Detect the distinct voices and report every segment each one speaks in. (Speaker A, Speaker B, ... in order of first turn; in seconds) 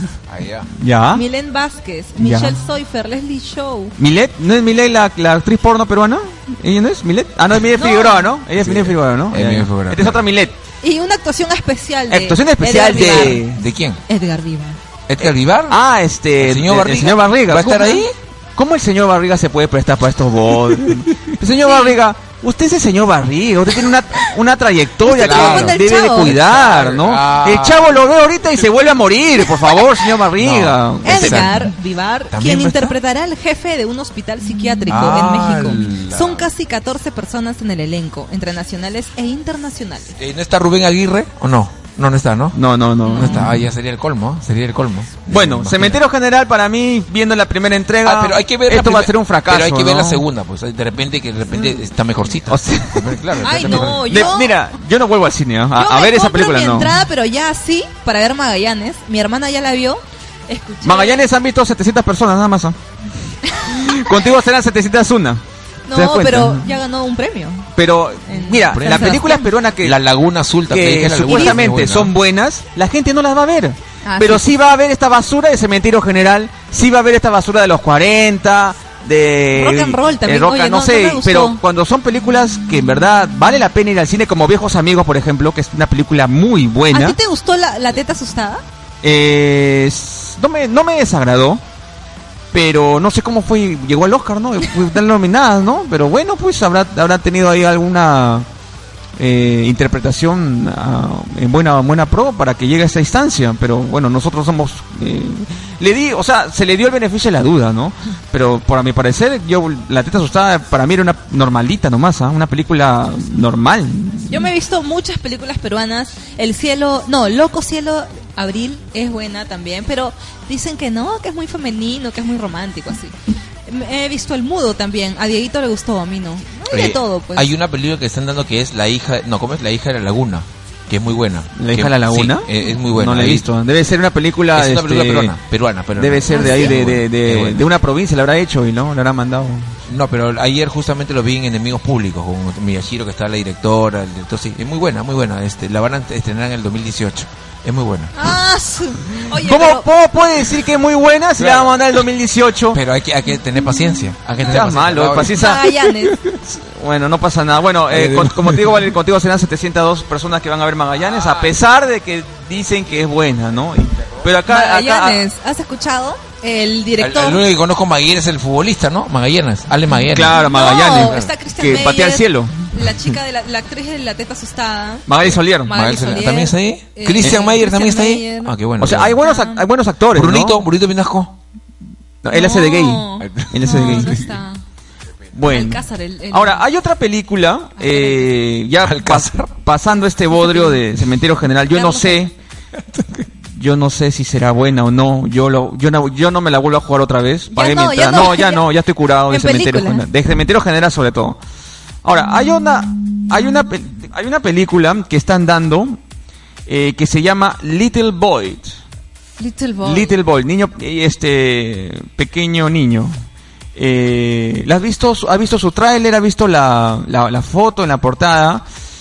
Speaker A: 0.3-0.7, 8.6-10.2, 13.3-14.0, 15.1-15.8, 16.4-18.1, 25.1-28.0, 30.4-31.7, 32.3-33.0, 34.9-36.5, 40.2-42.6, 43.1-46.0, 48.0-54.3, 68.7-72.1, 126.7-133.5, 134.5-137.7, 139.9-148.2, 151.4-151.8, 152.7-155.5, 157.9-158.8, 167.0-171.3, 175.2-179.2, 180.1-181.4, 183.2-184.3, 188.8-189.5, 192.8-193.3
Speaker B: 0.7-1.2, 2.2-2.6, 4.0-10.6, 12.1-13.6, 15.7-18.0, 18.6-31.5, 42.5-43.5, 45.3-50.2, 52.5-57.0, 60.8-62.8, 63.6-65.4, 65.9-66.7, 67.8-70.0, 70.7-87.2, 89.0-91.6, 92.5-98.5, 99.2-114.5, 131.6-135.3, 135.9-139.8, 149.3-152.8, 154.4-155.7, 156.3-165.2, 170.1-172.5, 175.1-175.7, 178.8-180.6, 182.2-184.3, 185.3-192.3, 193.5-201.4, 202.0-206.0, 206.7-208.8, 209.8-213.1, 213.7-218.6
Speaker C: 1.1-3.9, 7.8-8.3, 10.8-13.5, 14.1-14.8, 21.6-21.9, 25.1-26.3, 31.0-40.1, 43.0-43.5, 53.4-54.5, 55.7-61.2, 63.5-64.1, 65.9-67.7, 68.3-69.5, 71.3-71.6, 74.0-74.5, 79.5-81.6, 86.9-88.6, 114.3-123.1, 123.7-127.5, 136.3-136.7, 148.1-149.9, 155.2-156.2, 164.5-167.4, 170.3-175.1, 175.6-178.6, 179.2-179.7, 182.3-184.6, 185.5-186.6, 187.8-188.3, 190.3-190.8, 191.7-192.3, 197.5-198.7, 199.3-200.0, 209.4-210.1